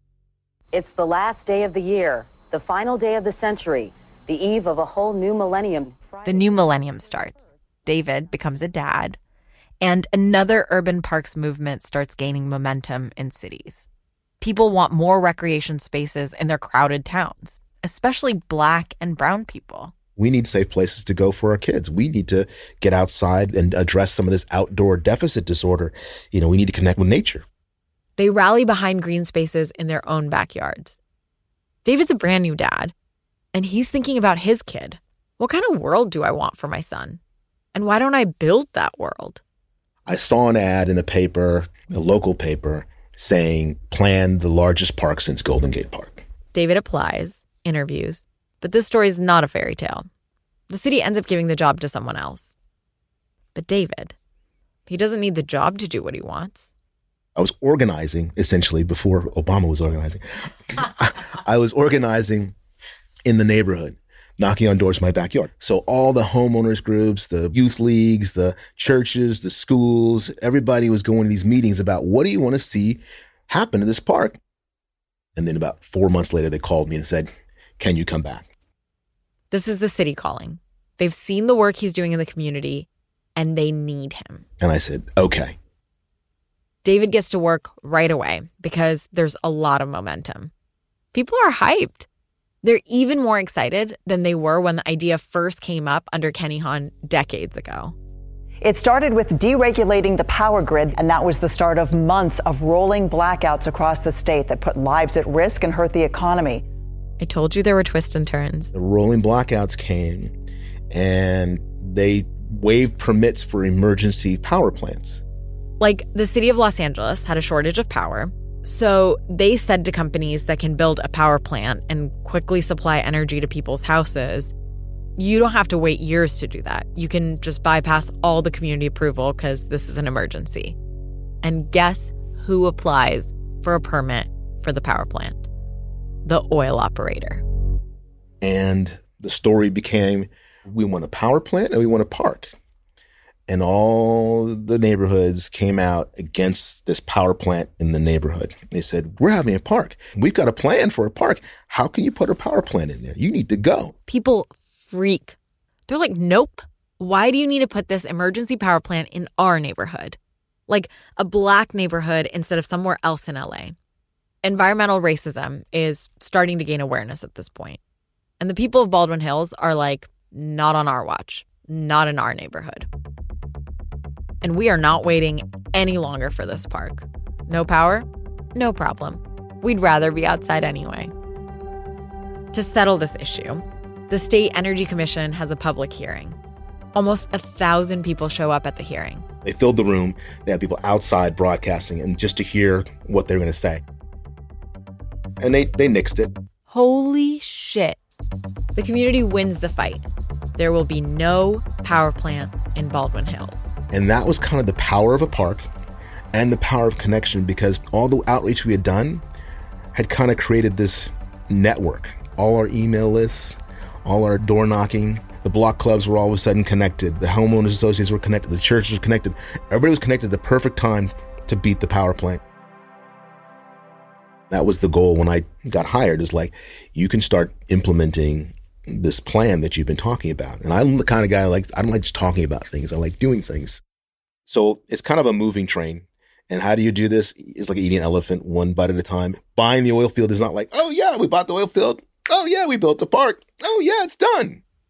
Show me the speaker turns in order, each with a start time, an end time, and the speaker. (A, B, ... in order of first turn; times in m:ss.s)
0:00.7-0:06.1 A
0:06.2-0:09.2 B
0:09.8-0:13.9 B
0:14.4-0:19.9 B
0:20.2-0:27.4 C
0:28.2-0:31.0 B
0:31.8-0:32.9 B
0:33.5-0:37.2 B
0:37.7-0:39.4 B
0:40.0-0:46.2 C
0:46.5-0:50.1 B
0:50.7-0:52.5 B
0:53.5-0:54.1 B
0:54.9-0:56.7 B
0:57.4-1:02.5 C
1:03.2-1:14.4 C
1:15.4-1:18.5 C
1:19.5-1:24.4 B
1:24.6-1:25.5 C
1:26.8-1:30.5 B
1:31.1-1:32.1 B
1:32.6-1:37.9 B
1:38.6-1:46.6 D
1:47.2-1:48.7 B
1:48.7-1:50.3 C
1:50.9-1:55.2 C
1:55.8-2:04.5 B
2:05.2-2:10.8 B
2:11.4-2:15.5 B
2:16.2-2:17.4 B
2:18.4-2:22.5 C
2:23.5-2:33.9 C
2:34.1-2:35.4 B
2:35.9-2:43.7 B
2:44.4-2:47.8 B
2:48.4-2:52.9 B
2:54.4-3:01.1 B
3:02.5-3:06.4 B
3:06.9-3:09.2 B
3:09.4-3:13.8 C
3:15.4-3:16.3 C
3:16.7-3:18.0 B
3:18.7-3:23.7 B
3:23.9-3:25.7 C
3:26.3-3:29.2 C
3:29.9-3:42.4 C
3:44.5-3:53.8 C
3:54.4-4:04.6 C